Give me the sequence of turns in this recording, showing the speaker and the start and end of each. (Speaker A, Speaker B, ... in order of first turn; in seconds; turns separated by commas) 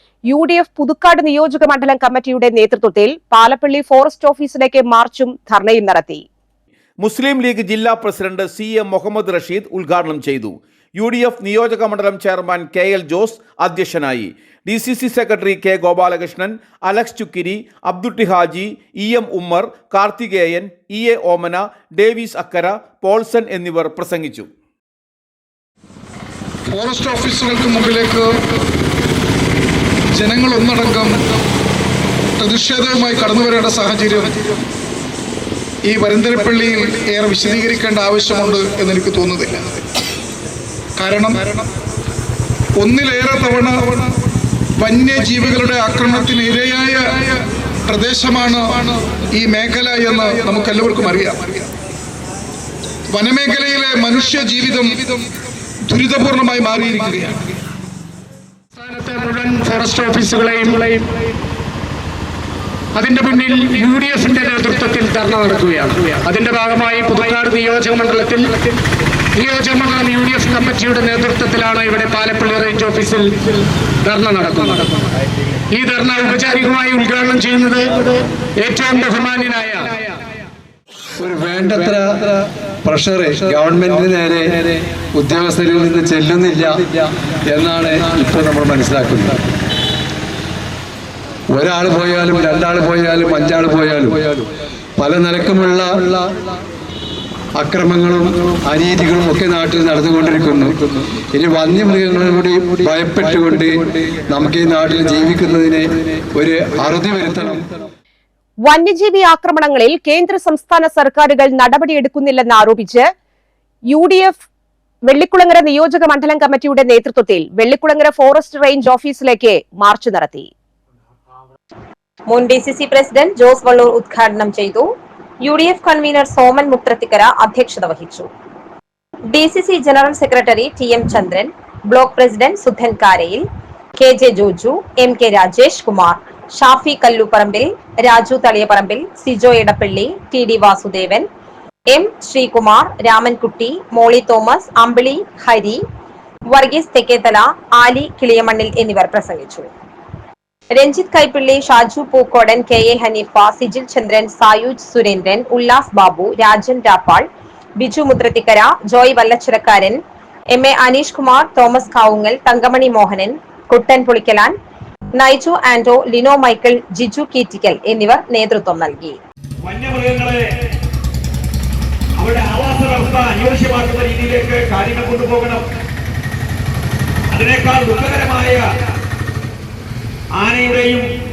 Speaker A: 0.3-6.2, Speaker B: 7.0-24.5, Speaker C: 26.7-28.3, Speaker C: 30.1-31.2, Speaker C: 32.4-34.5, Speaker C: 35.9-39.8, Speaker C: 41.0-41.6, Speaker C: 42.8-44.1, Speaker C: 44.8-51.7, Speaker C: 53.1-55.2, Speaker C: 55.9-57.4, Speaker D: 58.8-61.1, Speaker D: 63.0-68.8, Speaker D: 69.4-75.1, Speaker D: 75.7-80.0, Speaker E: 81.2-89.4, Speaker E: 91.5-96.3, Speaker E: 97.6-107.7, Speaker A: 108.7-113.1, Speaker A: 113.9-114.4, Speaker A: 115.1-120.5, Speaker F: 122.3-124.9, Speaker F: 125.4-128.3, Speaker F: 129.3-133.4, Speaker F: 134.0-141.3, Speaker F: 141.9-145.8, Speaker F: 146.5-149.7, Speaker F: 150.8-157.3, Speaker F: 157.8-160.0, Speaker F: 160.5-164.5, Speaker F: 165.2-169.2, Speaker G: 169.6-170.4, Speaker G: 172.2-175.7, Speaker G: 177.3-178.7, Speaker G: 180.3-181.1